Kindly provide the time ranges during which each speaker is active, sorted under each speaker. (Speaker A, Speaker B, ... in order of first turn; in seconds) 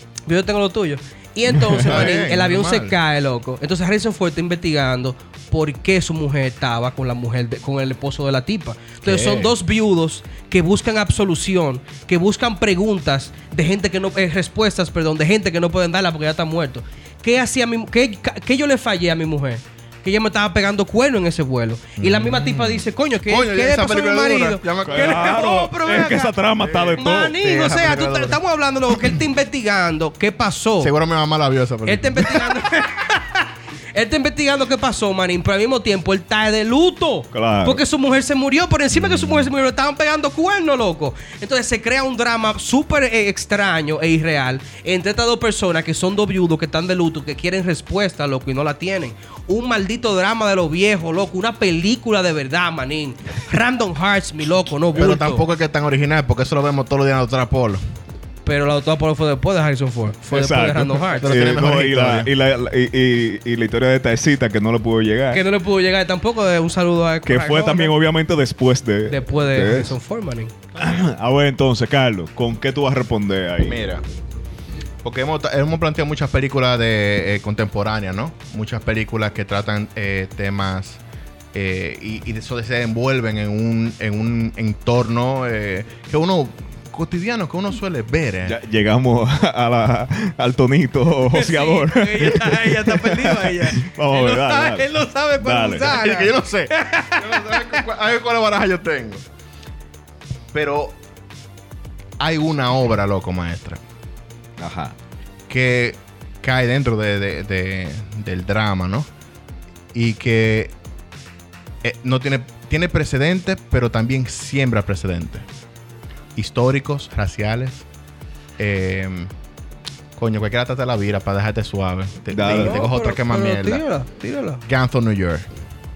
Speaker A: 0.3-26.4, 27.0-30.9, 31.9-55.5, 58.5-61.4, 65.3-67.9, 69.1-70.5, 91.3-97.8, 122.4-124.6
Speaker B: 1.8-3.0, 9.0-9.5, 22.0-25.4, 26.6-28.4, 30.8-32.5, 55.0-57.8, 61.2-62.3, 73.6-74.0, 75.0-81.0, 81.5-88.6, 95.9-99.2, 100.5-101.0, 102.2-103.8, 105.5-109.1, 109.9-110.7, 111.8-115.5, 116.4-117.9, 118.6-119.3, 120.2-123.8, 124.7-125.5
Speaker C: 24.9-27.4, 37.3-37.8, 60.3-65.4, 67.3-70.0, 70.8-73.8, 88.5-96.0, 104.6-105.0, 122.3-122.8